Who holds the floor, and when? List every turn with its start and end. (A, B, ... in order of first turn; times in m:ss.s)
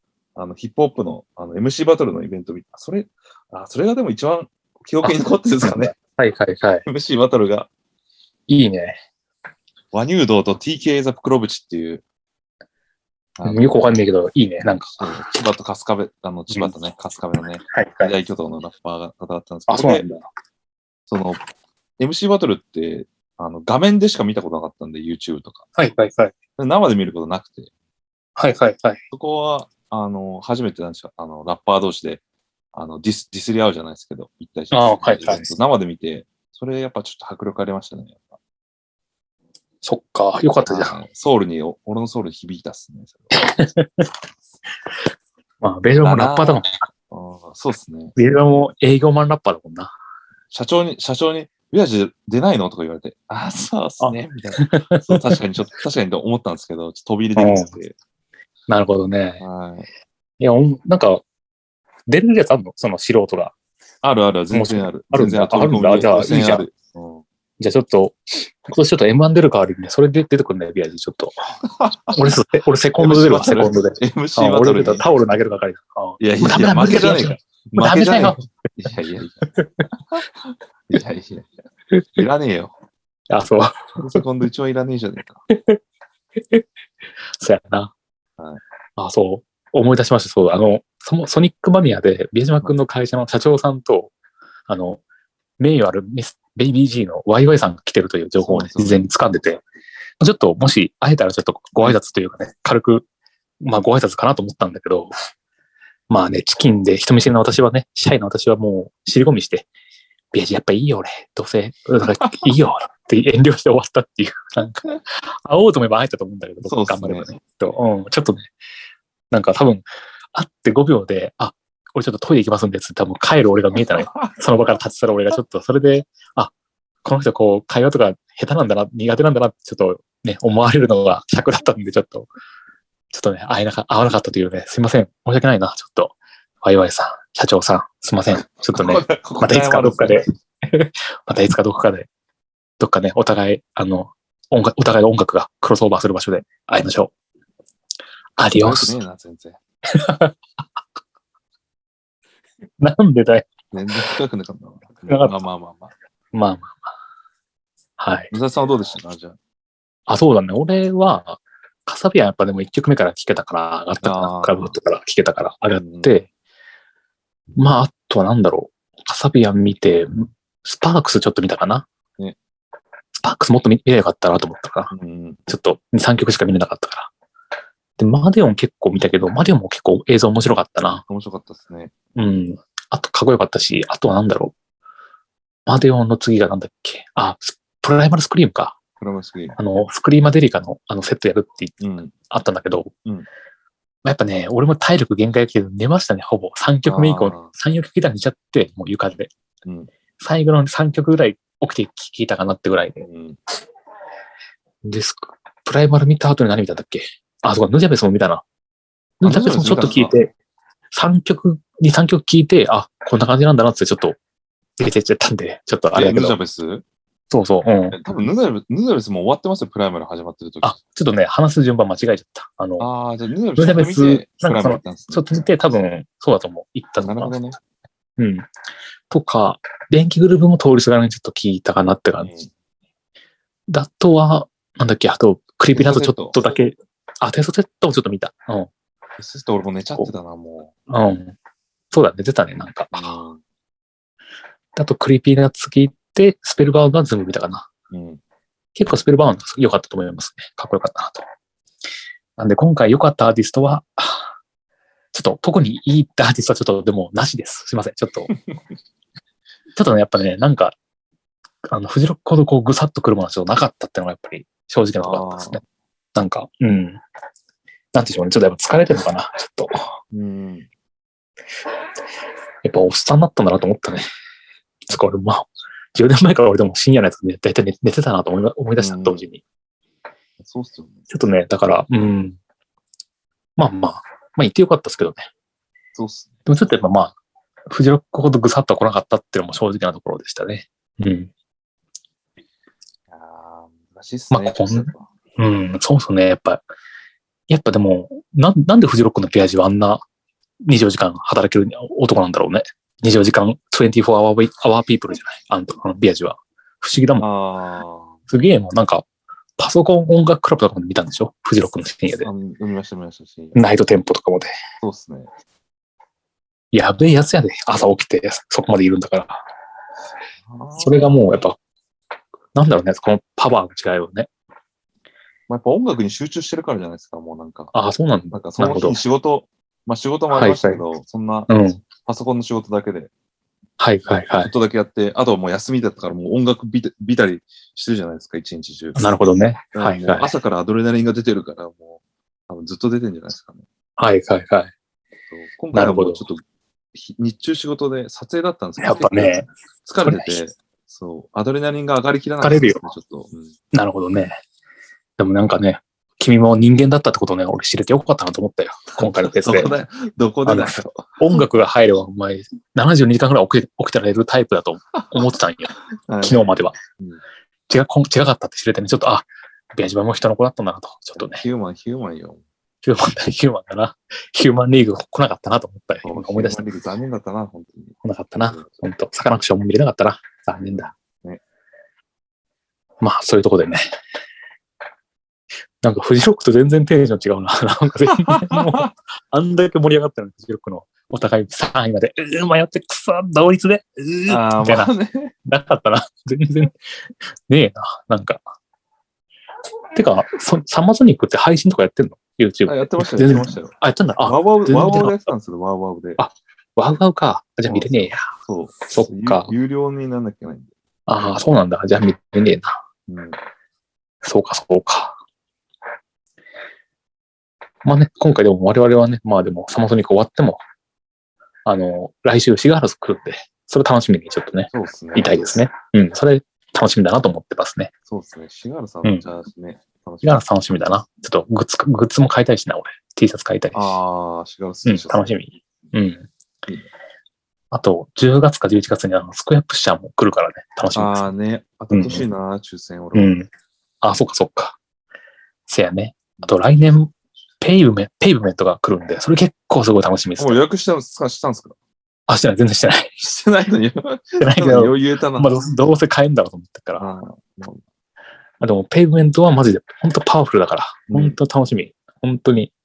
0:00.3-0:05.9 A
0:05.0-0:06.8 B
0:06.8-0:07.7 A
0:08.5-0:09.0 B
0:09.9-0:12.0 A
0:13.4-0:13.7 A
0:13.4-0:15.2 B
0:15.0-0:20.1 A
0:16.5-0:16.8 B
0:17.7-0:18.1 B
0:19.7-0:20.3 B
0:21.1-0:21.4 A
0:22.0-0:25.6 A
0:25.8-0:26.3 B
0:26.6-0:27.7 A
0:28.4-0:29.0 B
0:29.1-0:32.2 A
0:32.7-0:38.3 A
0:34.7-0:35.5 B
0:39.8-0:41.0 B
0:40.6-0:43.5 A
0:43.3-0:44.1 B
0:45.6-0:46.8 B
0:46.0-0:48.2 A
0:48.2-0:49.9 B
0:50.5-0:58.0 A
0:54.0-0:55.4 B
0:57.4-0:57.7 B
0:58.7-0:59.4 B
0:59.4-0:59.9 A
1:00.4-1:01.2 B
1:02.1-1:03.5 B
1:04.0-1:07.2 A
1:04.5-1:06.7 B
1:07.6-1:11.3 B
1:11.8-1:12.3 A
1:12.1-1:18.5 B
1:13.0-1:15.0 A
1:16.2-1:19.5 A
1:19.6-1:19.8 B
1:20.9-1:21.5 A
1:21.9-1:22.2 B
1:22.2-1:22.7 A
1:23.3-1:24.2 B
1:24.0-1:25.4 A
1:25.5-1:25.8 B
1:27.4-1:27.9 B
1:29.0-1:34.1 B
1:34.7-1:35.0 B
1:35.6-1:39.6 B
1:38.4-1:39.1 A
1:40.2-1:43.0 B
1:43.6-1:45.1 B
1:46.1-1:49.7 B
1:50.3-1:58.5 B
1:56.6-1:57.3 A
1:59.3-2:06.5 B
2:03.7-2:04.4 A
2:07.0-2:12.3 B
2:13.1-2:22.1 B
2:18.3-2:20.2 A
2:22.8-2:27.1 B
2:28.4-2:29.0 B
2:28.5-2:29.6 A
2:30.0-2:30.4 B
2:32.8-2:33.5 B
2:33.7-2:35.9 A
2:35.1-2:35.4 B
2:36.3-2:36.8 B
2:38.0-2:38.3 B
2:38.3-2:39.4 A
2:40.1-2:46.3 B
2:44.0-2:44.8 A
2:45.7-2:46.2 A
2:47.6-2:51.8 B
2:53.2-2:54.9 B
2:54.9-2:55.4 A
2:55.5-2:57.1 B
2:58.0-3:01.0 B
3:01.1-3:01.9 A
3:02.2-3:04.5 B
3:05.6-3:08.8 B
3:09.0-3:09.6 A
3:09.6-3:12.9 B
3:11.8-3:12.1 A
3:14.0-3:19.3 B
3:16.9-3:17.5 A
3:19.6-3:19.9 A
3:20.2-3:23.0 B
3:23.0-3:23.4 A
3:24.8-3:28.4 B
3:29.2-3:30.3 B
3:29.2-3:30.2 A
3:30.9-3:34.2 B
3:34.8-3:36.4 B
3:35.9-3:36.8 A
3:37.3-3:38.0 B
3:37.9-3:40.8 A
3:40.6-3:42.9 B
3:42.8-3:45.2 A
3:43.6-3:47.4 B
3:47.0-3:47.6 A
3:48.2-3:48.5 B
3:49.1-3:52.3 B
3:52.2-3:52.5 A
3:53.7-3:58.7 B
3:55.7-3:56.4 A
3:59.2-4:00.7 A
4:00.9-4:01.3 B
4:01.9-4:03.1 B
4:02.9-4:03.4 A
4:04.7-4:07.7 B
4:07.9-4:08.2 A
4:08.7-4:11.2 B
4:12.4-4:14.3 B
4:15.1-4:18.3 B
4:19.7-4:20.8 B
4:21.7-4:25.6 B
4:25.0-4:25.6 A
4:26.1-4:27.0 B
4:27.9-4:29.7 B
4:30.1-4:30.7 A
4:32.6-4:34.0 B
4:34.9-4:39.4 B
4:38.8-4:39.3 A
4:40.4-4:41.0 A
4:41.1-4:42.4 B
4:43.6-4:45.2 B
4:45.9-4:46.4 A
4:46.4-4:47.1 B
4:47.7-4:51.3 B
4:53.1-4:55.0 A
4:54.3-4:56.6 B
4:57.5-5:00.0 B
5:00.6-5:07.3 B
5:07.2-5:08.2 A
5:08.3-5:09.0 B
5:09.6-5:12.3 B
5:12.2-5:13.6 A
5:13.5-5:14.5 B
5:14.8-5:15.3 A
5:16.7-5:19.4 B
5:20.4-5:21.2 A
5:20.8-5:21.6 B
5:22.5-5:24.3 B
5:25.5-5:27.7 A
5:27.7-5:29.0 B
5:28.3-5:31.5 A
5:30.3-5:30.8 B
5:31.5-5:31.8 B
5:32.0-5:33.1 A
5:33.8-5:34.5 B
5:34.4-5:39.0 A
5:39.0-5:40.4 B
5:39.7-5:43.6 A
5:44.0-5:44.7 B
5:45.3-5:53.5 A
5:45.7-5:46.3 B
5:48.8-5:49.5 B
5:50.0-5:50.4 B
5:52.4-5:52.8 B
5:53.7-5:54.3 B
5:55.2-5:59.8 B
5:59.0-6:01.0 A
6:00.4-6:06.8 B
6:06.0-6:06.4 A
6:07.7-6:11.4 B
6:11.2-6:12.4 A
6:12.8-6:16.7 B
6:16.0-6:18.6 A
6:18.0-6:20.9 B
6:20.6-6:21.4 A
6:23.0-6:23.8 B
6:25.8-6:34.9 B
6:28.2-6:28.9 A
6:34.3-6:35.3 A
6:35.4-6:36.8 B
6:37.5-6:38.4 B
6:39.9-6:45.3 B
6:42.6-6:46.2 A
6:46.2-6:48.3 B
6:47.6-6:50.7 A
6:48.9-6:49.5 B
6:51.1-6:52.8 B
6:53.1-6:53.4 A
6:54.2-6:55.2 B
6:57.8-7:00.6 B
7:01.6-7:07.9 B
7:04.7-7:05.6 A
7:08.1-7:10.7 A
7:10.2-7:14.0 B
7:13.7-7:15.4 A
7:14.8-7:16.3 B
7:17.7-7:21.3 B
7:20.9-7:23.4 A
7:21.9-7:22.3 B
7:23.1-7:23.5 B
7:24.0-7:24.8 B
7:25.7-7:30.6 B
7:30.4-7:31.8 A
7:32.3-7:33.2 B
7:33.2-7:35.5 A
7:34.4-7:37.1 B
7:37.0-7:37.8 A
7:38.6-7:42.7 B
7:41.1-7:41.4 A